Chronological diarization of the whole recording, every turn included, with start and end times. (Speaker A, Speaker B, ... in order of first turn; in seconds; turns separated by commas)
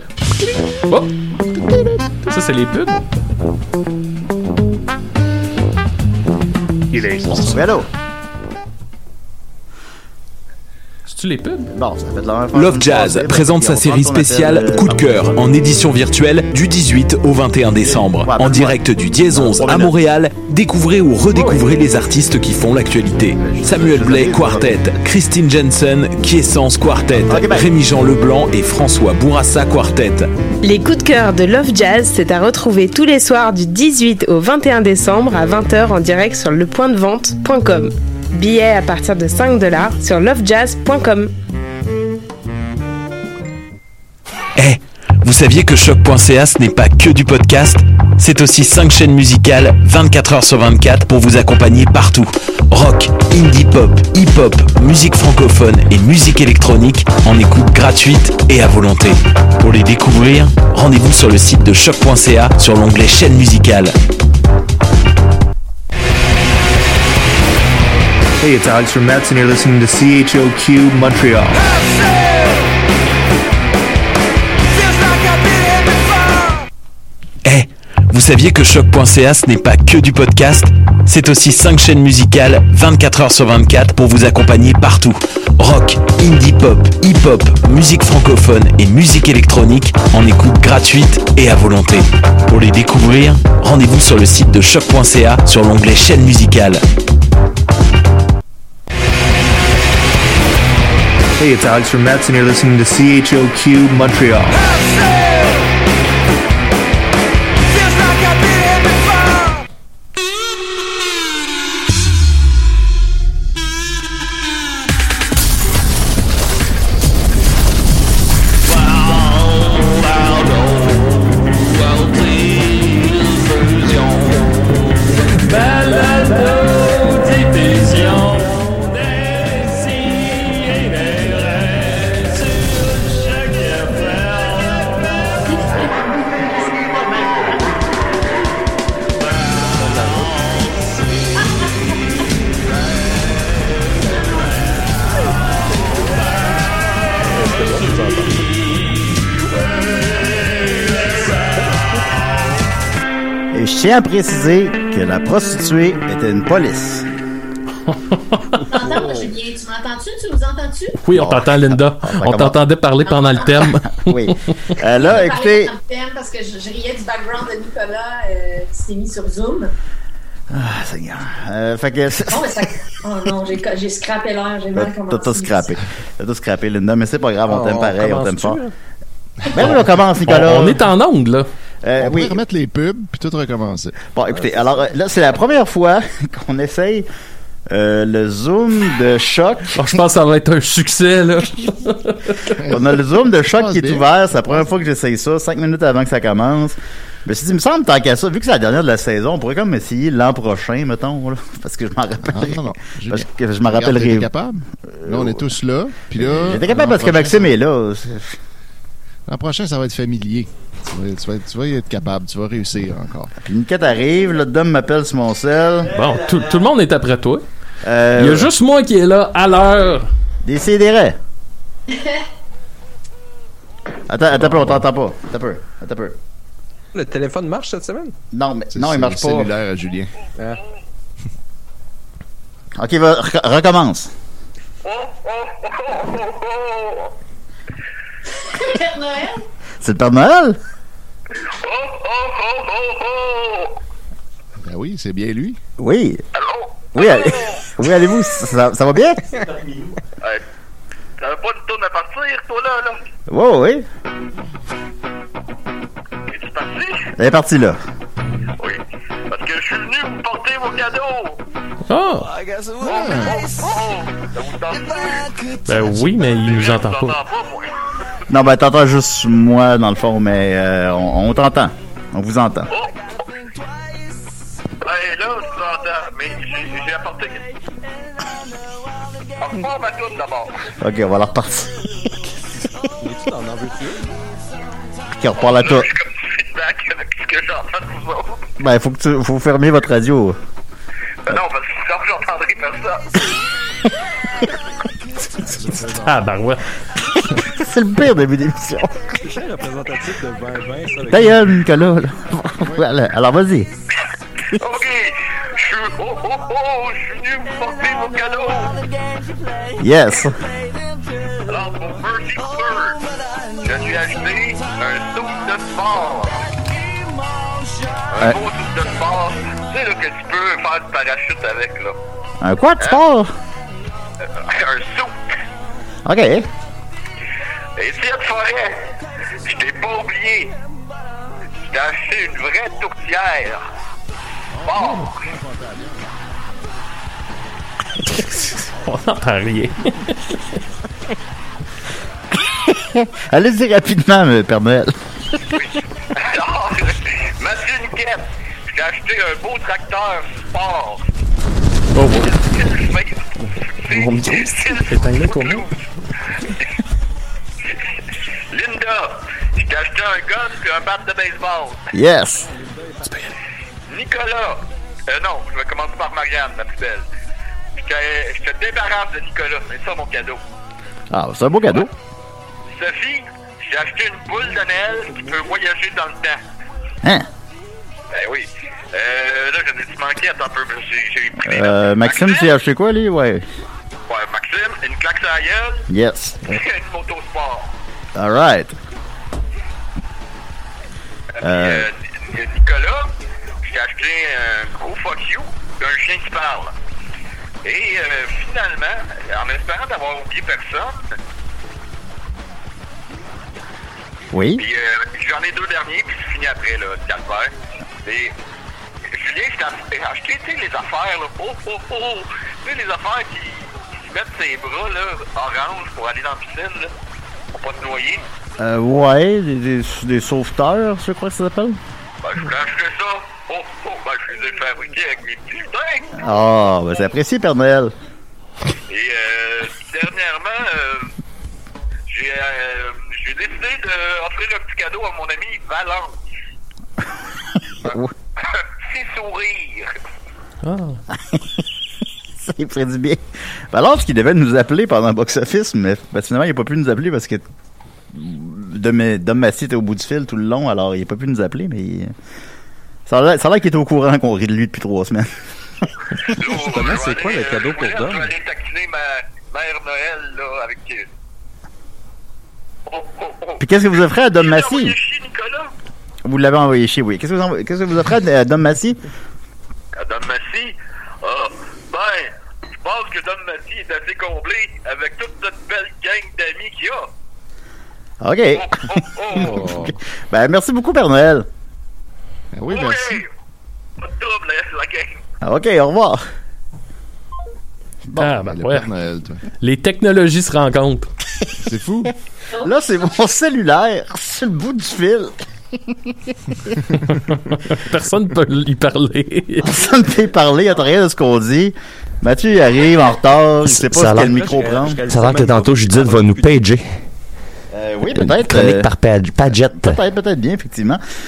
Speaker A: 0.9-1.1, Speaker A: 2.0-3.0, Speaker A: 6.9-7.6, Speaker B: 7.2-7.9, Speaker A: 11.1-11.7, Speaker B: 11.7-15.6, Speaker C: 12.5-30.3, Speaker B: 17.8-20.0, Speaker B: 21.3-21.6, Speaker B: 23.4-24.9, Speaker B: 27.2-27.7, Speaker D: 30.6-41.3, Speaker C: 44.5-63.9, Speaker E: 68.4-71.6, Speaker C: 77.4-96.8, Speaker E: 101.4-104.6, Speaker F: 123.6-124.2, Speaker G: 135.6-136.4, Speaker A: 147.4-148.3, Speaker B: 153.5-157.1, Speaker A: 157.9-158.6, Speaker G: 158.7-161.0, Speaker A: 161.0-164.3, Speaker B: 161.1-162.6, Speaker G: 163.1-163.6, Speaker B: 163.9-165.7, Speaker G: 165.0-169.7, Speaker B: 170.5-172.6, Speaker G: 172.3-175.7, Speaker B: 174.7-178.6, Speaker H: 177.5-178.6, Speaker B: 179.5-180.8, Speaker A: 180.2-181.5, Speaker B: 181.8-182.4, Speaker I: 182.0-183.9, Speaker B: 184.1-187.1, Speaker B: 187.7-189.9, Speaker A: 189.7-192.6, Speaker I: 192.6-194.1, Speaker B: 192.7-204.3, Speaker I: 202.2-207.6, Speaker B: 204.9-205.4, Speaker B: 206.2-208.3, Speaker I: 209.3-213.3, Speaker B: 213.4-215.9, Speaker A: 215.9-217.4, Speaker B: 217.8-218.5, Speaker A: 218.2-220.1, Speaker B: 220.4-221.2, Speaker B: 224.1-226.2, Speaker I: 224.3-224.8, Speaker H: 226.9-228.1, Speaker B: 228.3-229.5, Speaker I: 228.7-230.1, Speaker B: 232.8-234.1, Speaker F: 234.8-237.1, Speaker G: 238.5-239.4, Speaker B: 239.8-240.6, Speaker F: 241.3-243.8, Speaker I: 244.6-245.6, Speaker B: 245.8-246.2, Speaker F: 246.3-247.7, Speaker B: 246.9-249.2, Speaker F: 251.2-253.0, Speaker B: 253.3-253.8, Speaker F: 256.3-257.1, Speaker B: 257.2-257.8, Speaker F: 258.6-261.4, Speaker A: 261.9-262.3, Speaker F: 262.8-265.6, Speaker I: 262.8-263.4, Speaker A: 265.7-267.2, Speaker F: 266.4-267.8, Speaker B: 268.3-272.7, Speaker F: 272.7-273.1, Speaker F: 274.8-277.5, Speaker F: 279.4-280.7, Speaker B: 280.8-282.2, Speaker H: 283.0-284.1, Speaker B: 285.2-285.9, Speaker F: 285.4-288.4, Speaker B: 288.6-290.4, Speaker F: 291.2-293.2, Speaker I: 295.4-296.1, Speaker A: 295.8-296.6, Speaker B: 297.2-299.1, Speaker H: 299.2-301.4, Speaker B: 301.1-303.7, Speaker F: 304.6-308.8, Speaker B: 309.8-310.3, Speaker F: 311.4-313.0, Speaker F: 313.6-316.5, Speaker F: 318.1-321.9, Speaker B: 322.4-323.3, Speaker F: 324.3-325.4, Speaker B: 326.1-326.5, Speaker F: 327.8-328.9, Speaker F: 329.4-330.5, Speaker F: 331.6-333.6, Speaker I: 334.5-336.1, Speaker F: 334.6-335.2, Speaker A: 338.0-340.3, Speaker B: 342.6-344.9, Speaker F: 345.5-351.0, Speaker A: 351.9-352.3, Speaker F: 352.1-353.3, Speaker F: 353.8-355.7, Speaker J: 353.9-354.8, Speaker A: 354.8-355.6, Speaker F: 358.5-361.9, Speaker B: 361.9-362.5, Speaker A: 363.1-363.3, Speaker F: 363.9-367.1, Speaker F: 367.8-370.4, Speaker B: 371.1-371.9, Speaker F: 372.7-376.4, Speaker F: 378.1-382.5, Speaker B: 381.5-383.4, Speaker F: 384.1-385.9, Speaker B: 385.9-386.6, Speaker F: 386.5-387.7, Speaker B: 388.1-388.7, Speaker F: 391.4-393.1, Speaker B: 391.4-391.9, Speaker F: 393.6-396.7, Speaker F: 397.6-401.1, Speaker B: 404.3-404.6, Speaker F: 404.6-407.5, Speaker F: 408.0-408.3, Speaker F: 409.1-416.9, Speaker F: 417.5-418.2, Speaker B: 418.6-421.8, Speaker F: 422.2-426.1, Speaker B: 426.2-427.9, Speaker F: 428.9-431.1, Speaker F: 432.1-436.2, Speaker B: 437.8-438.1, Speaker F: 437.8-439.9, Speaker A: 440.6-441.0, Speaker B: 441.2-441.4, Speaker B: 442.5-447.4, Speaker B: 448.1-452.1, Speaker B: 453.1-456.4, Speaker F: 456.3-461.1, Speaker H: 456.6-458.3, Speaker F: 462.9-465.7, Speaker B: 463.6-464.9, Speaker B: 466.2-469.0, Speaker F: 470.0-477.1, Speaker B: 478.2-481.4, Speaker F: 478.5-479.6, Speaker H: 479.4-479.9, Speaker I: 482.5-483.2, Speaker F: 482.7-483.3, Speaker F: 484.0-485.2, Speaker B: 485.4-486.2, Speaker I: 488.1-489.4, Speaker A: 488.2-488.9, Speaker A: 489.6-491.1, Speaker I: 491.6-492.1, Speaker B: 492.6-495.3, Speaker A: 497.1-499.7, Speaker B: 499.6-505.0, Speaker J: 503.6-504.3, Speaker H: 504.2-506.6, Speaker J: 505.1-506.8, Speaker B: 507.7-508.9, Speaker J: 508.2-510.0, Speaker B: 509.5-511.0